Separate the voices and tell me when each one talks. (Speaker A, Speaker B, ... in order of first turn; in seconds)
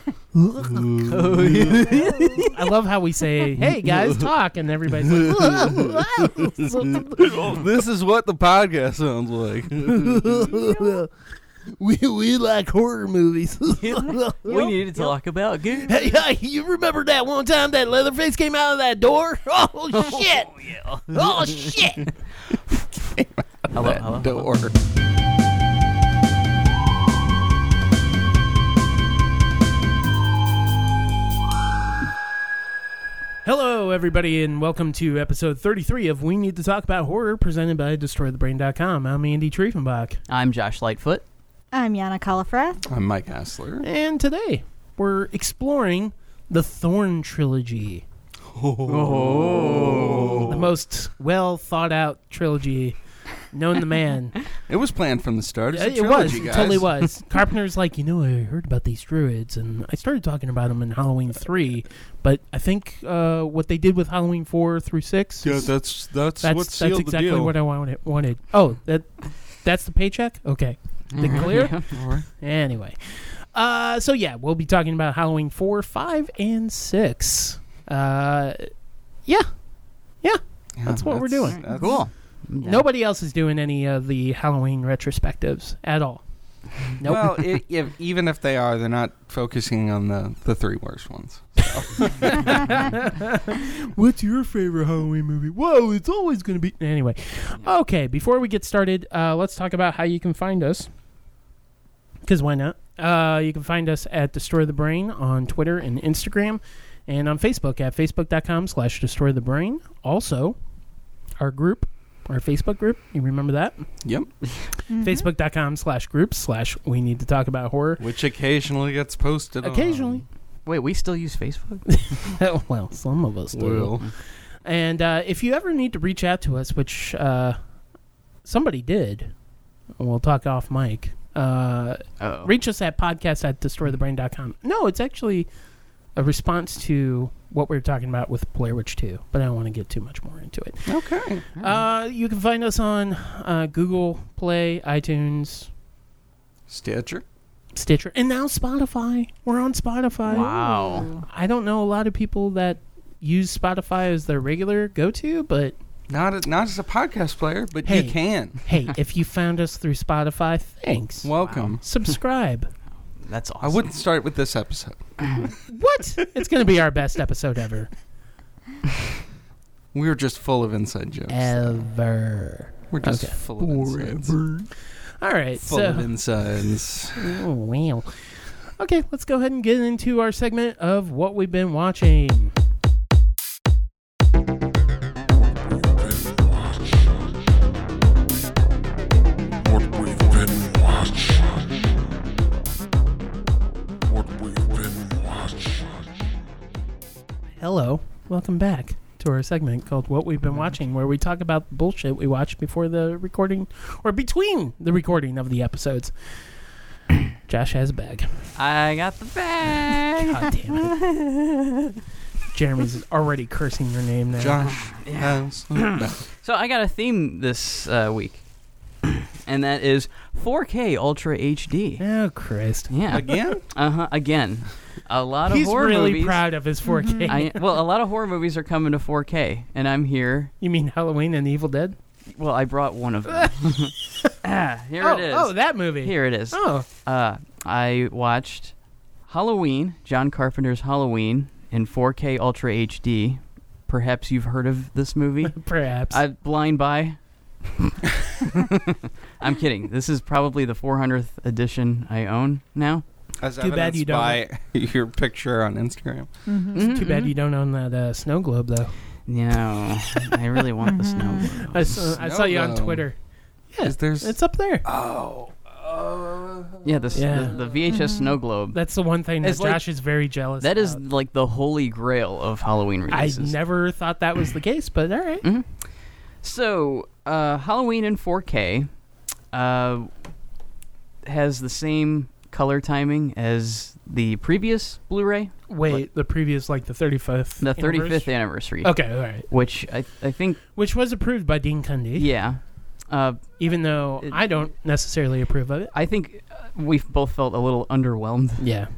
Speaker A: 0.3-7.6, 9.8-11.1, 11.8-15.1, 15.8-20.5, 21.1-22.1, 33.4-40.2, 43.8-48.0, 50.4-54.4, 55.7-65.7, 66.4-78.7, 79.2-79.6, 80.2-81.6, 82.6-86.2, 86.8-87.6, 92.3-100.9, 102.2-110.6, 111.4-113.8, 115.0-118.0, 119.6-120.2, 121.9-124.0, 124.6-127.6, 128.4-129.3, 130.0-135.5, 136.1-141.0, 141.5-145.7, 147.8-150.6, 151.2-155.8, 157.8-162.7, 165.7-167.9, 171.3-176.1, 177.1-178.2, 178.8-182.5, 197.6-206.1, 207.4-208.3, 210.2-211.0, 212.5-214.7, 222.0-222.9, 225.5-227.6, 230.6-231.9, 235.0-236.8, 245.5-246.2, 253.6-254.4, 256.8-258.9, 261.6-263.2, 263.7-264.8, 267.1-267.6, 268.7-271.0, 273.1-275.4, 285.7-288.3, 288.8-289.5, 290.8-292.3, 293.6-295.9, 298.6-298.9
Speaker B: 0.6-2.0, 3.6-4.3, 5.0-10.7, 23.1-24.7, 42.9-43.8, 48.5-50.7, 54.7-56.9, 65.4-67.5, 71.3-72.2, 80.8-82.0, 87.0-92.9, 114.0-114.3, 118.0-120.2, 123.5-124.1, 140.8-141.4, 146.7-147.2, 156.1-158.6, 161.2-161.8, 163.6-165.5, 169.9-171.8, 172.9-174.4, 175.6-177.3, 214.3-216.2, 223.1-223.6, 253.4-256.3, 262.0-263.1, 263.8-267.9
Speaker C: 1.1-2.5, 13.8-16.0, 19.9-21.7, 23.7-24.5, 40.3-41.2, 48.9-50.5, 71.1-71.9, 81.5-82.9, 120.7-122.1, 132.2-132.5, 150.3-151.1, 161.4-161.7, 163.2-163.9, 208.6-211.9, 214.7-218.4, 219.0-222.0, 222.9-226.4, 227.3-230.5, 232.3-238.7, 239.3-253.0, 256.7-257.3, 259.3-261.8, 266.8-268.8, 269.4-269.8, 270.6-273.6, 275.4-275.7, 276.4-278.9, 279.5-280.1, 281.2-286.0, 287.6-290.6, 292.2-293.6, 295.9-298.6
Speaker D: 41.7-42.8, 114.9-115.3, 150.3-151.2, 226.9-227.3, 256.5-256.9, 260.8-261.6, 267.9-268.3
Speaker E: 189.8-191.3, 194.1-195.4